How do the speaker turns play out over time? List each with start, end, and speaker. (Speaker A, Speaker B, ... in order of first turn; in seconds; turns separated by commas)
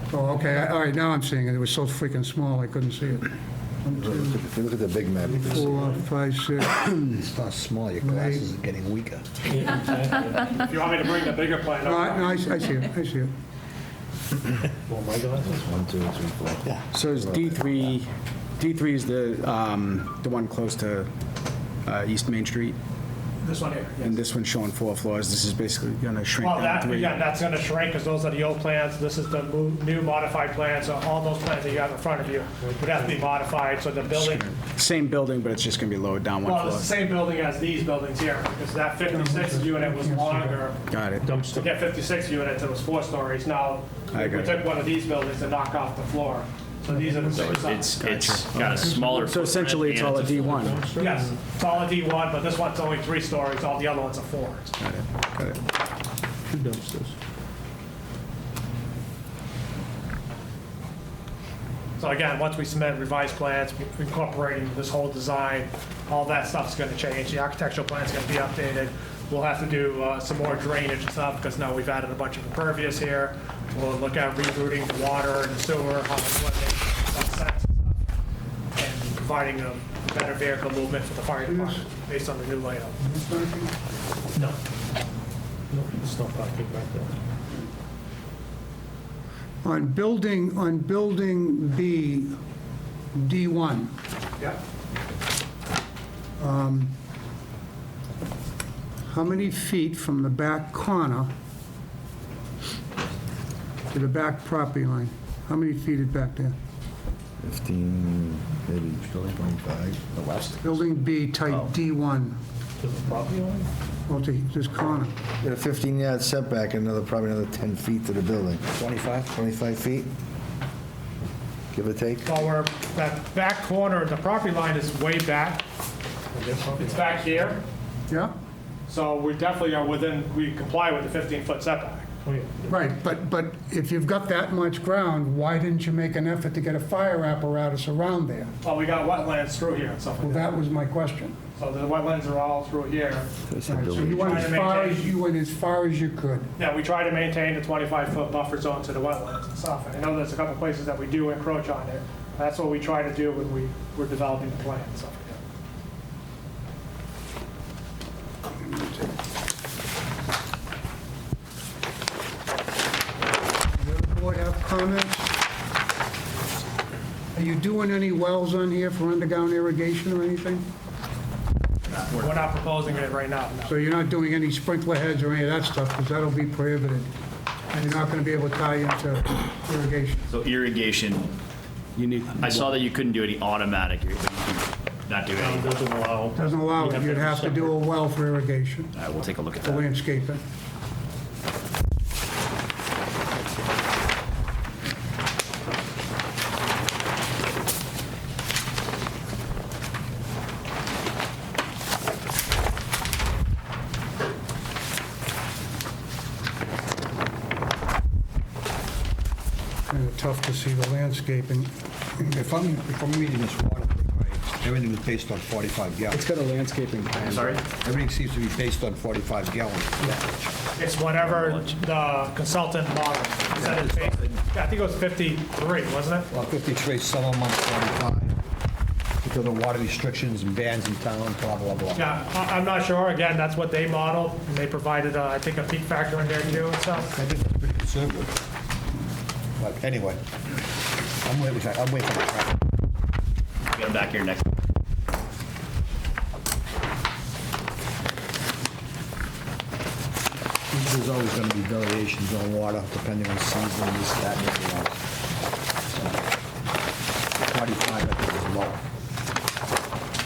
Speaker A: 0.1-4.4, Speaker B: 4.0-5.8, Speaker A: 5.3-7.2, Speaker C: 5.3-6.0, Speaker D: 7.1-9.3, Speaker A: 8.0-8.5, Speaker C: 9.5-10.6, Speaker E: 10.5-12.4, Speaker A: 11.8-13.3, Speaker C: 14.9-15.5, Speaker B: 15.4-17.5, Speaker F: 16.9-21.1, Speaker F: 21.9-22.8, Speaker E: 23.4-24.1, Speaker F: 24.0-27.1, Speaker E: 26.4-34.5, Speaker F: 34.1-36.9, Speaker E: 36.4-40.8, Speaker A: 39.0-40.6, Speaker F: 40.9-41.3, Speaker C: 41.2-41.7, Speaker E: 41.5-48.0, Speaker F: 44.1-44.6, Speaker A: 46.9-47.5, Speaker G: 47.3-50.6, Speaker F: 48.0-50.8, Speaker C: 50.5-51.4, Speaker E: 51.0-54.7, Speaker F: 54.8-55.6, Speaker C: 56.5-57.1, Speaker E: 62.0-78.0, Speaker E: 78.8-83.0, Speaker A: 81.4-81.8, Speaker A: 83.0-83.7, Speaker C: 85.7-87.1, Speaker A: 89.6-92.4, Speaker A: 93.1-93.9, Speaker A: 96.4-96.9, Speaker A: 99.1-101.3, Speaker A: 103.9-106.6, Speaker B: 107.4-110.5, Speaker A: 110.6-112.4, Speaker C: 112.8-113.7, Speaker A: 114.1-115.2, Speaker B: 115.4-118.6, Speaker D: 118.7-119.3, Speaker B: 119.3-120.1, Speaker B: 121.7-122.4, Speaker E: 122.2-125.6, Speaker C: 126.3-127.4, Speaker E: 126.8-127.6, Speaker A: 128.1-128.3, Speaker E: 128.9-132.1, Speaker C: 132.2-132.7, Speaker A: 132.7-138.5, Speaker E: 138.6-140.6, Speaker A: 140.2-141.3, Speaker E: 141.6-143.3, Speaker B: 143.5-144.6, Speaker A: 143.7-146.5, Speaker E: 144.0-145.1, Speaker E: 146.6-155.4, Speaker A: 163.7-165.3, Speaker A: 167.3-170.6, Speaker G: 171.9-172.4, Speaker E: 172.2-173.7, Speaker A: 173.7-177.1, Speaker A: 177.7-180.3, Speaker G: 180.3-181.3, Speaker F: 181.9-182.8, Speaker G: 182.4-185.7, Speaker C: 185.3-187.7, Speaker A: 186.3-188.9, Speaker G: 188.9-189.8, Speaker A: 189.6-190.4, Speaker A: 209.9-212.4, Speaker D: 212.2-216.2, Speaker F: 216.1-217.6, Speaker G: 217.2-217.6, Speaker D: 217.8-220.2, Speaker E: 220.7-226.3, Speaker G: 221.4-221.7, Speaker D: 223.6-224.1, Speaker D: 226.3-228.4, Speaker D: 229.2-232.1, Speaker E: 231.9-237.1, Speaker D: 237.1-238.3, Speaker D: 239.6-240.2, Speaker D: 241.2-242.6, Speaker G: 243.7-244.5, Speaker D: 250.7-255.1, Speaker D: 255.9-256.2, Speaker D: 257.4-258.8